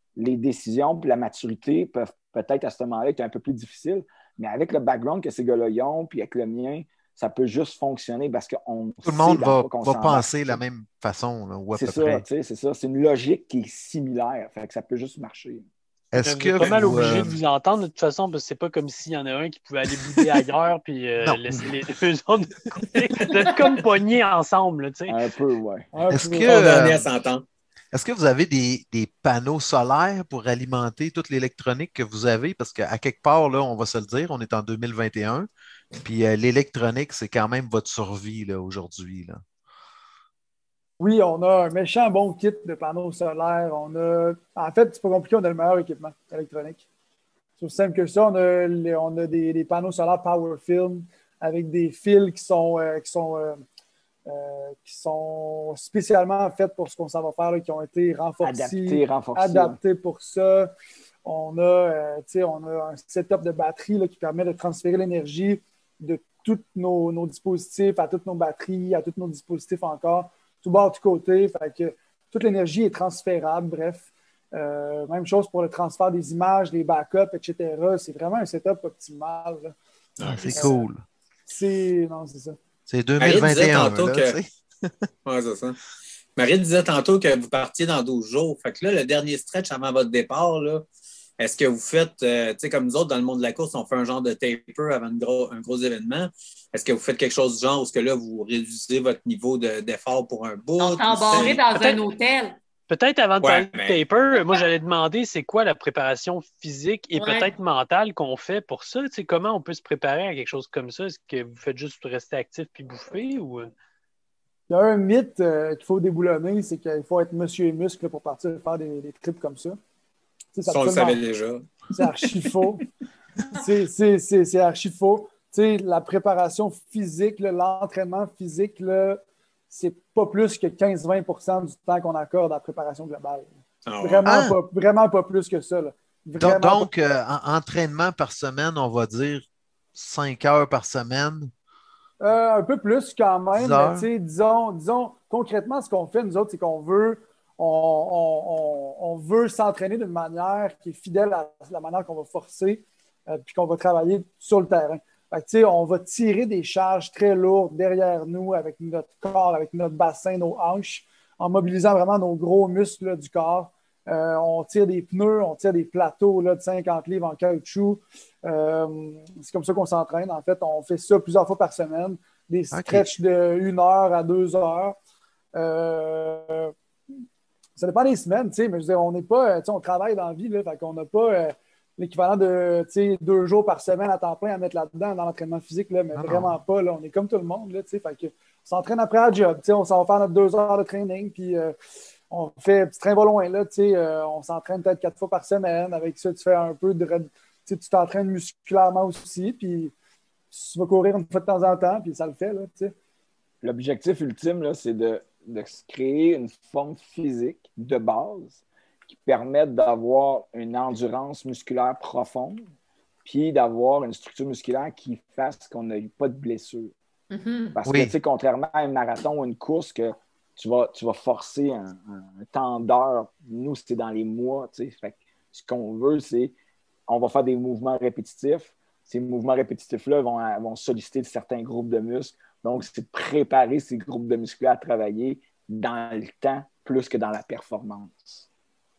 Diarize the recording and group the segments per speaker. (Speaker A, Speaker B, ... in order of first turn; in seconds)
Speaker A: 0.2-10.6, 11.7-15.7, 25.1-25.9, 58.4-59.8, 203.6-212.6, 213.2-216.9, 217.8-226.5, 227.1-238.4
Speaker B: 9.1-12.2, 16.1-17.4, 21.2-21.7, 26.1-27.1, 27.9-35.5, 36.0-39.4, 80.2-81.0, 82.9-85.1, 134.3-134.6, 136.4-139.4, 140.0-141.5, 143.6-144.1, 172.7-173.1, 186.2-186.5, 217.9-218.1
Speaker C: 16.2-25.2, 102.9-113.7
Speaker D: 16.6-17.3, 23.2-23.5, 26.5-27.4, 80.2-80.8, 83.2-84.4, 85.3-85.8, 86.4-90.9, 91.4-101.8, 103.4-104.0, 120.7-122.3, 133.9-134.3
Speaker E: 25.9-26.5, 41.0-46.8, 47.6-53.6, 54.3-60.7, 61.2-79.8, 80.5-80.9, 81.5-82.6, 114.7-119.8, 120.6-121.2, 121.9-122.9, 123.5-136.9, 142.2-175.0, 175.6-176.7, 177.8-191.7, 192.3-199.9, 200.5-202.9
Speaker F: 100.8-102.6, 107.2-107.5, 217.3-217.7